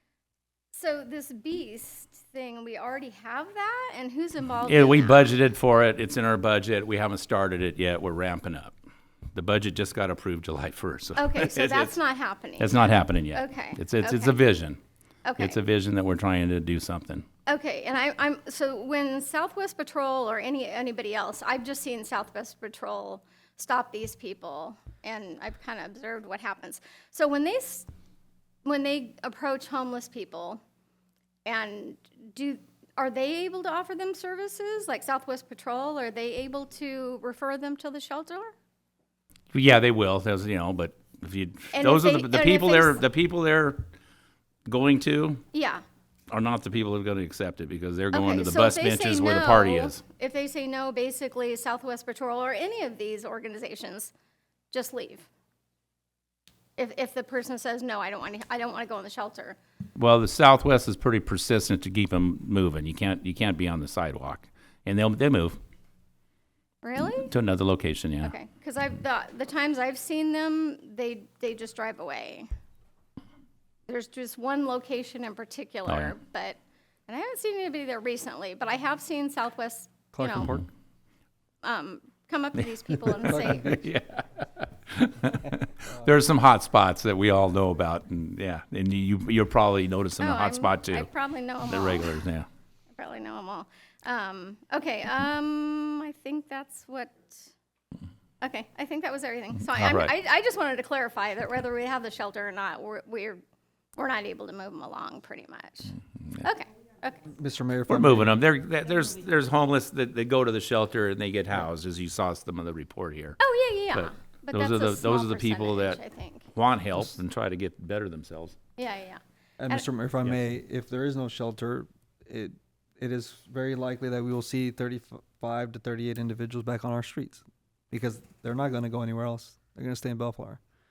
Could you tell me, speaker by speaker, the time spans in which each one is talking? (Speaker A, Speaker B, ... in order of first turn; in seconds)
Speaker A: 0.7-5.3, 11.2-14.4, 15.2-15.6, 17.5-27.9, 28.6-30.6, 31.5-38.5, 41.7-43.0, 45.5-45.8, 48.1-54.1, 54.7-55.3, 56.8-59.6, 66.8-67.3, 68.2-72.5, 73.9-80.6, 81.6-83.8, 90.2-92.2, 93.0-97.5, 98.4-103.4, 104.0-107.3, 113.4-116.5, 118.8-119.8
Speaker B: 4.7-8.7, 9.3-12.0, 12.6-14.8, 15.4-17.3, 39.5-43.9, 44.7-45.4, 46.3-50.0, 60.0-65.6, 67.3-68.3, 75.9-76.1, 80.2-80.7, 83.0-91.1, 91.6-92.5, 99.7-100.1, 107.9-113.4, 113.9-116.0, 116.5-118.6
Speaker C: 80.2-80.5, 107.3-108.4, 119.6-130.6